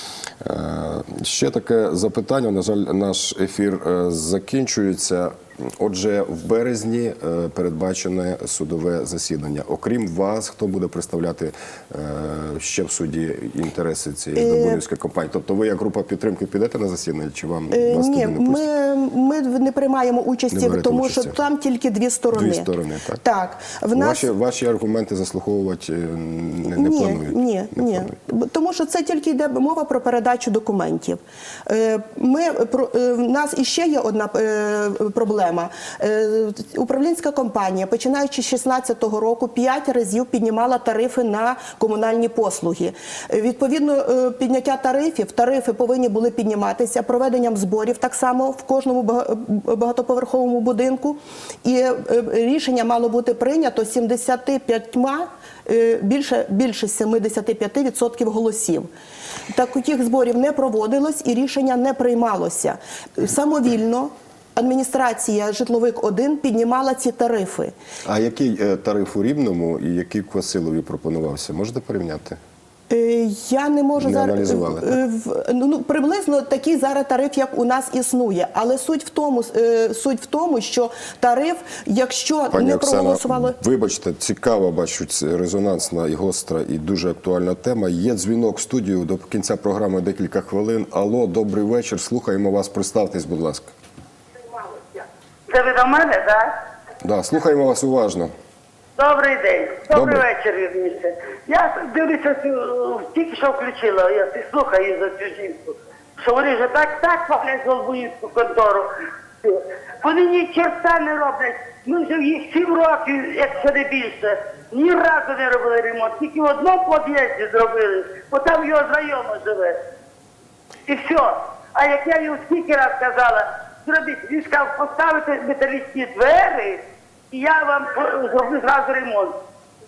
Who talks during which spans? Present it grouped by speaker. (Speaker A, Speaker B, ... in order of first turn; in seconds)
Speaker A: 0.4-18.6, 20.5-21.4, 22.3-23.2, 23.9-28.1, 68.0-72.4, 74.0-75.0, 82.5-93.7, 97.0-98.3, 99.9-100.2
Speaker B: 14.3-14.8, 17.7-22.7, 23.2-24.3, 26.6-58.9, 59.5-67.7, 72.9-83.5
Speaker C: 94.5-96.5, 99.0-108.9, 109.4-119.8, 120.9-129.3